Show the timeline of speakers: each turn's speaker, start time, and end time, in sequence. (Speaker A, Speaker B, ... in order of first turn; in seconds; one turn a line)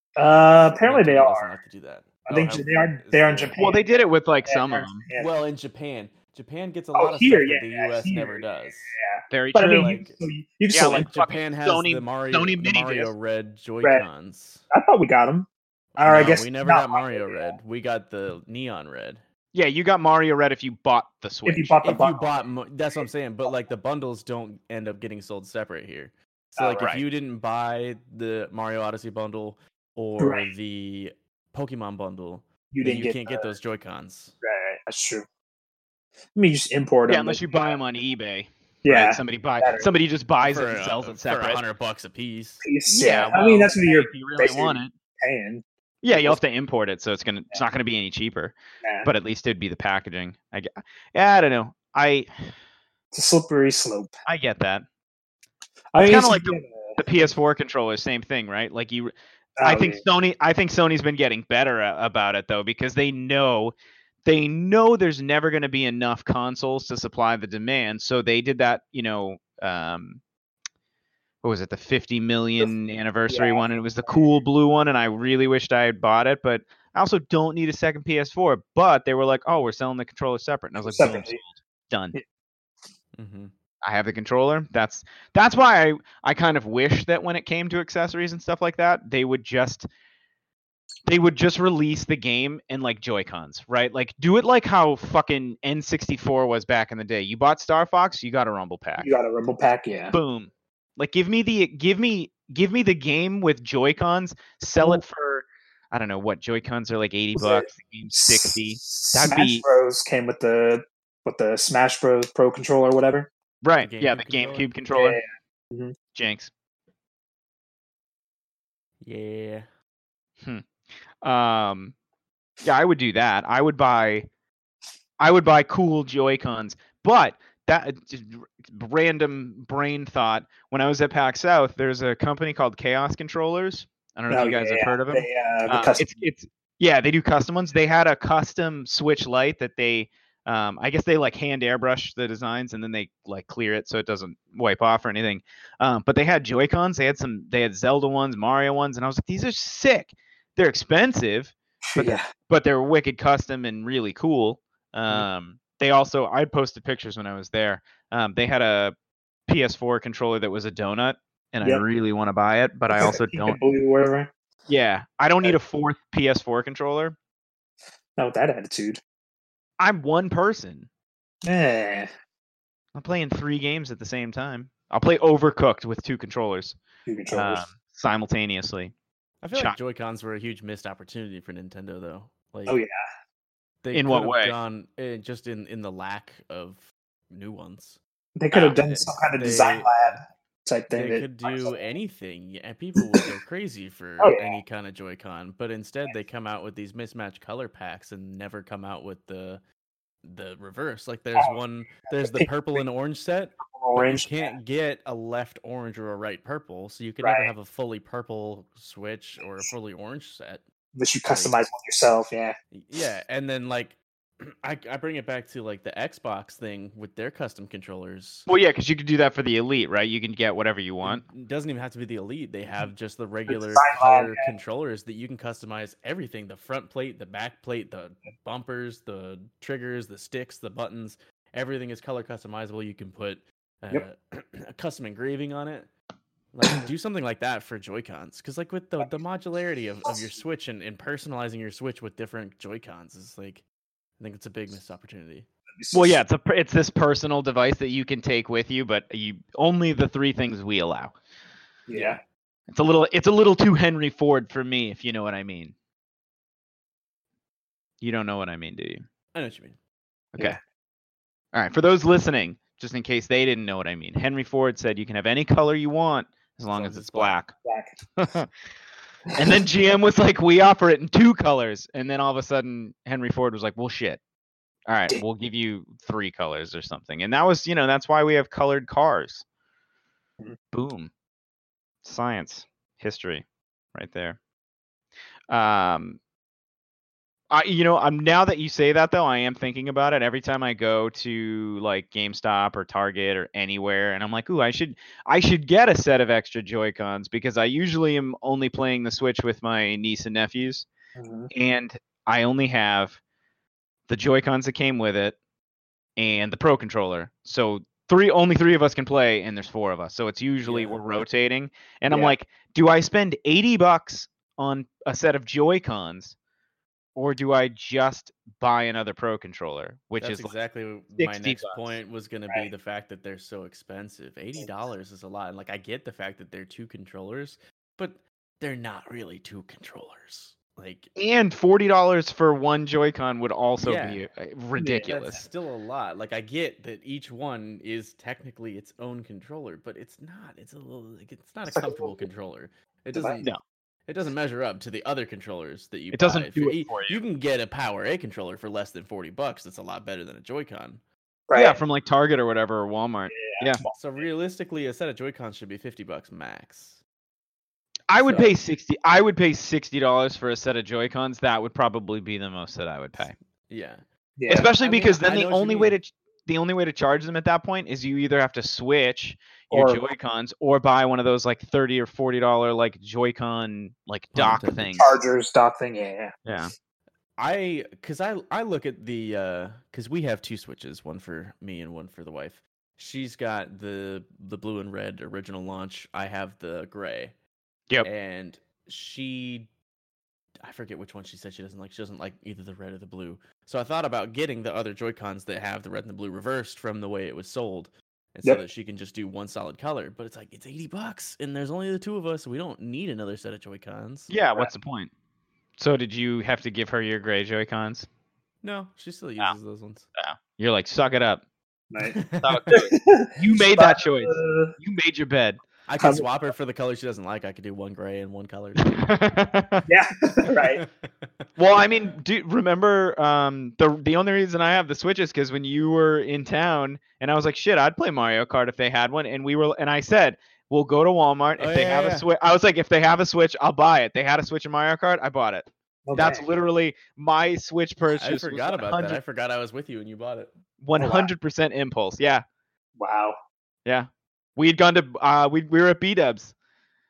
Speaker A: 0.2-1.5
Speaker B: 0.8-3.6
Speaker A: 2.3-5.3
Speaker C: 3.6-5.1
Speaker B: 5.1-8.9
Speaker A: 7.0-11.1
Speaker C: 9.3-9.9
Speaker B: 9.6-10.2
Speaker C: 10.7-13.1
Speaker B: 10.9-14.7
Speaker A: 14.7-15.5
Speaker B: 16.0-19.2
Speaker A: 16.0-17.6
Speaker C: 19.5-21.8
Speaker A: 21.5-22.4
Speaker B: 21.8-34.4
Speaker A: 26.6-26.9
Speaker A: 30.2-30.5
Speaker A: 32.7-33.5
Speaker A: 34.4-35.3
Speaker A: 36.4-37.8
Speaker C: 37.1-41.6
Speaker A: 38.9-39.9
Speaker B: 40.4-42.6
Speaker A: 42.6-46.4
Speaker C: 42.9-44.9
Speaker C: 46.0-52.3
Speaker A: 48.8-49.1
Speaker A: 53.1-54.1
Speaker C: 54.3-54.9
Speaker A: 55.9-57.3
Speaker C: 56.0-63.7
Speaker A: 59.6-60.0
Speaker C: 64.2-70.2
Speaker C: 71.4-82.2
Speaker A: 73.3-74.3
Speaker A: 80.8-81.4
Speaker B: 83.2-83.5
Speaker C: 83.8-89.9
Speaker C: 91.1-99.1
Speaker A: 99.0-100.2
Speaker C: 100.1-109.7
Speaker A: 107.4-113.3
Speaker C: 113.6-115.2
Speaker B: 113.8-114.7
Speaker A: 114.9-116.0
Speaker C: 116.1-116.5
Speaker B: 119.0-119.7
Speaker C: 121.2-122.0
Speaker C: 122.6-124.3
Speaker C: 125.2-158.9
Speaker A: 134.3-136.2
Speaker A: 151.9-152.3
Speaker C: 159.5-163.6
Speaker A: 162.9-164.3
Speaker C: 164.7-167.2
Speaker A: 168.2-169.0
Speaker C: 169.8-170.9
Speaker A: 171.4-172.1
Speaker C: 172.9-176.8
Speaker A: 177.1-177.7
Speaker C: 177.3-178.9
Speaker B: 179.4-182.8
Speaker A: 182.7-182.9
Speaker B: 183.8-188.0
Speaker C: 183.9-184.5
Speaker A: 188.4-191.8
Speaker B: 188.7-190.2
Speaker B: 190.9-199.6
Speaker A: 193.0-193.3
Speaker A: 194.2-194.6
Speaker B: 200.2-210.6
Speaker A: 202.2-202.8
Speaker A: 203.7-204.5
Speaker A: 207.2-207.5
Speaker A: 210.9-212.6
Speaker B: 211.3-211.6
Speaker B: 212.7-218.5
Speaker C: 218.5-221.2
Speaker B: 221.0-235.9
Speaker A: 223.5-224.5
Speaker B: 236.5-243.7
Speaker B: 244.2-245.5
Speaker A: 245.8-246.2
Speaker C: 245.9-251.2
Speaker A: 251.9-252.2
Speaker B: 251.9-252.2
Speaker C: 252.7-255.7
Speaker C: 258.0-259.0
Speaker B: 259.3-259.8
Speaker C: 260.3-260.6
Speaker C: 261.5-267.5
Speaker B: 266.7-267.4
Speaker A: 267.6-267.9
Speaker C: 268.2-268.5
Speaker C: 269.3-274.2
Speaker C: 274.9-279.4
Speaker C: 280.7-281.1
Speaker C: 282.0-284.4
Speaker C: 285.5-286.2
Speaker C: 287.5-300.9
Speaker A: 301.2-301.5
Speaker C: 301.5-303.2
Speaker C: 304.1-305.4
Speaker C: 306.2-316.4
Speaker B: 310.6-311.0
Speaker A: 312.1-312.3
Speaker C: 317.2-320.5
Speaker B: 320.2-331.1
Speaker C: 321.2-322.0
Speaker C: 331.2-335.5
Speaker B: 333.8-334.2
Speaker A: 334.8-335.1
Speaker B: 335.1-343.5
Speaker A: 341.7-342.3
Speaker A: 343.1-343.4
Speaker B: 344.1-351.0
Speaker C: 346.1-347.2
Speaker A: 351.5-351.8
Speaker C: 351.5-353.8
Speaker A: 353.3-353.9
Speaker B: 353.9-357.0
Speaker C: 358.1-363.3
Speaker B: 358.2-358.6
Speaker B: 363.2-364.0
Speaker A: 364.4-364.7
Speaker C: 364.5-375.2
Speaker B: 364.6-366.0
Speaker A: 369.7-370.0
Speaker B: 374.3-375.0
Speaker A: 375.0-376.4
Speaker C: 376.4-376.7
Speaker B: 377.4-387.4
Speaker B: 388.0-389.7
Speaker B: 390.6-404.3
Speaker C: 404.3-405.1
Speaker C: 405.8-408.1
Speaker B: 408.6-410.1
Speaker C: 410.2-411.4
Speaker A: 411.9-412.2
Speaker B: 412.0-412.6
Speaker C: 412.4-415.6
Speaker A: 412.7-414.8
Speaker B: 415.9-419.1
Speaker A: 416.0-416.3
Speaker C: 418.8-419.9
Speaker A: 419.9-420.8
Speaker B: 420.5-421.5
Speaker C: 421.6-439.2
Speaker B: 431.6-432.3
Speaker A: 436.1-436.5
Speaker B: 438.1-440.5
Speaker C: 440.8-442.4
Speaker A: 441.0-441.3
Speaker A: 443.0-443.4
Speaker C: 443.9-446.5